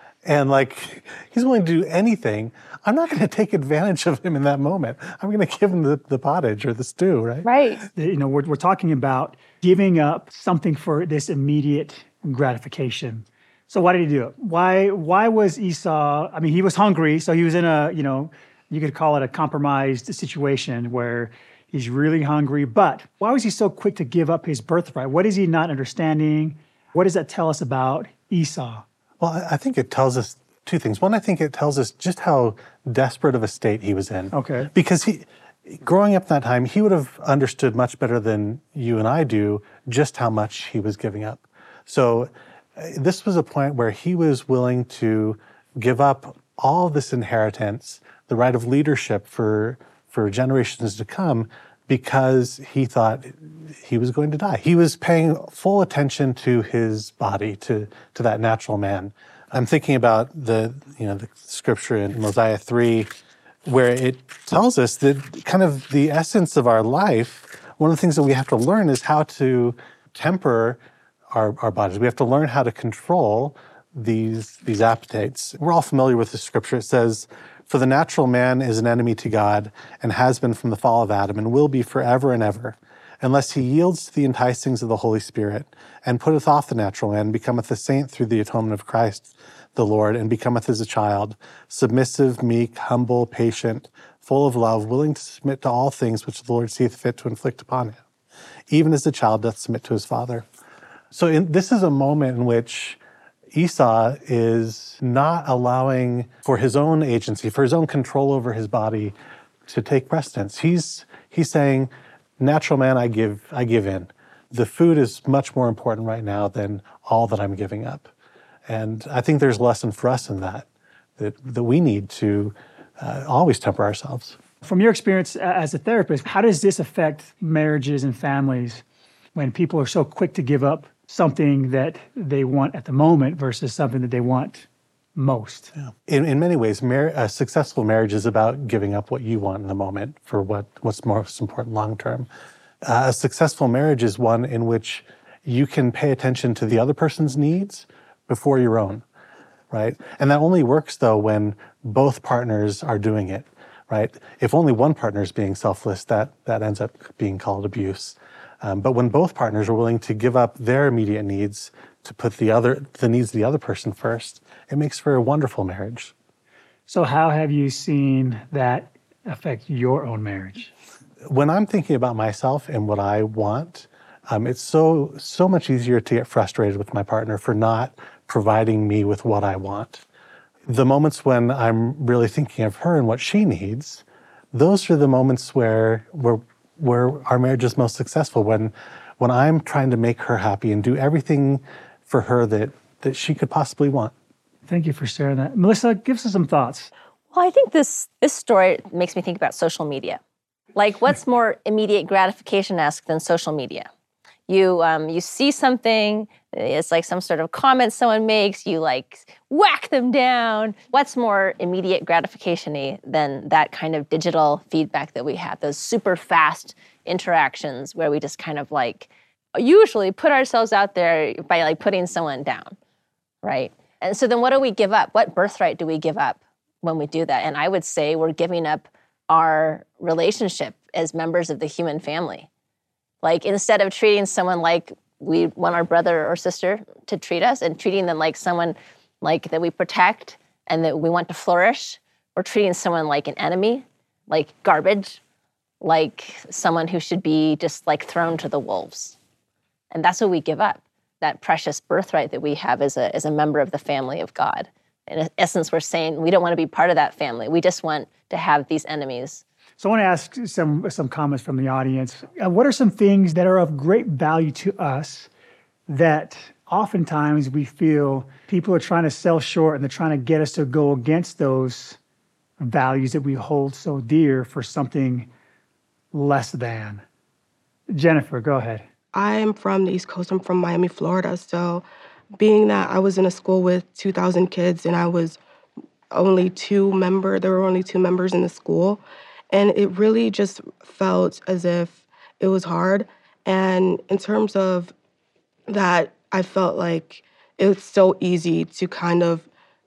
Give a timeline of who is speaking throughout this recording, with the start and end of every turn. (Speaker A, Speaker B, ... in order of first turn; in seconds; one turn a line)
Speaker A: 0.2-7.5
Speaker B: 7.4-7.8
Speaker C: 7.9-28.8
Speaker A: 29.2-63.1
Speaker C: 34.3-34.7
Speaker A: 63.6-70.8
Speaker A: 71.3-98.0
Speaker A: 98.7-100.5
Speaker A: 101.1-103.0
Speaker A: 103.5-109.1
Speaker A: 109.7-118.1
Speaker A: 118.7-120.7
Speaker A: 121.2-124.4
Speaker C: 124.6-128.8
Speaker C: 129.3-135.7
Speaker A: 135.8-142.3
Speaker A: 142.8-149.0
Speaker A: 149.7-166.1
Speaker C: 166.9-170.7
Speaker A: 171.2-180.0
Speaker A: 180.7-194.1
Speaker C: 194.7-196.9
Speaker B: 197.3-200.2
Speaker B: 200.8-203.9
Speaker B: 204.5-222.8
Speaker B: 223.4-232.5
Speaker B: 233.2-245.2
Speaker B: 245.8-249.2
Speaker B: 249.9-259.4
Speaker C: 259.8-265.3
Speaker C: 265.9-272.0
Speaker C: 272.6-275.3
Speaker C: 276.1-277.0
Speaker C: 277.9-278.8
Speaker D: 279.1-281.8
Speaker D: 282.4-285.4
Speaker D: 286.1-294.9
Speaker D: 295.7-299.5